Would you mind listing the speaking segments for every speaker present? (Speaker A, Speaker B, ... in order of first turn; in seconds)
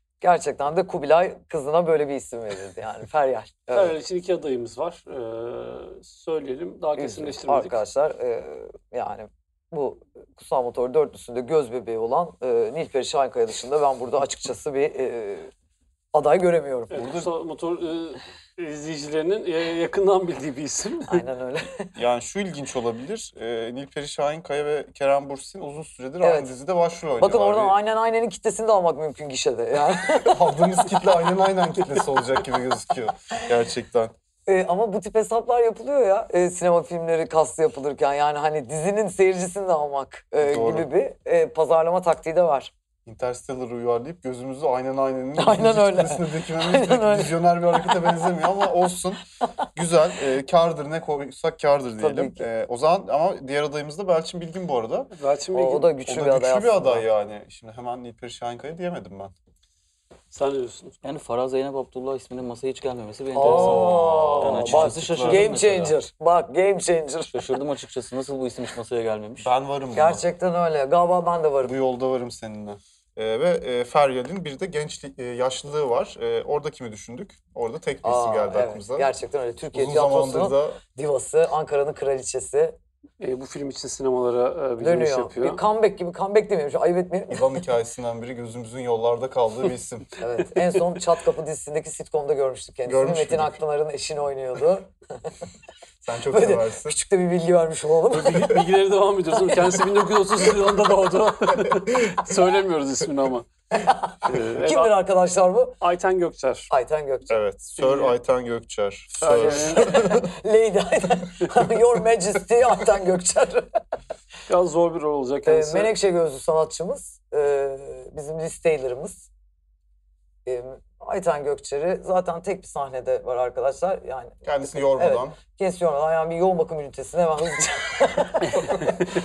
Speaker A: 0.2-3.9, 7.0-15.5, 16.1-16.9, 21.1-21.9, 26.2-26.5, 27.2-30.4, 34.5-42.7, 45.4-48.0, 52.0-52.5, 55.5-57.1, 63.4-67.4, 69.9-71.7, 78.0-82.8, 84.8-87.5, 90.2-94.9, 96.3-98.6, 103.7-105.8, 106.7-107.4, 109.3-113.7, 115.5-119.3, 120.5-129.0
Speaker B: 3.7-7.8, 16.9-21.2, 55.1-55.9, 60.3-61.0, 83.2-85.6, 98.1-103.5, 104.2-104.9, 105.8-106.7, 107.8-108.2, 109.2-110.0, 114.5-115.9
Speaker C: 16.9-17.3, 21.9-27.8, 30.2-34.1, 40.4-40.9, 43.1-49.2, 49.8-55.1, 56.1-59.3, 63.4-65.5, 69.4-70.2, 71.6-79.1, 79.7-80.8, 87.3-90.1, 92.9-93.6, 96.0-97.0, 107.3-110.3, 124.4-125.4
Speaker D: 61.0-66.0, 67.3-69.5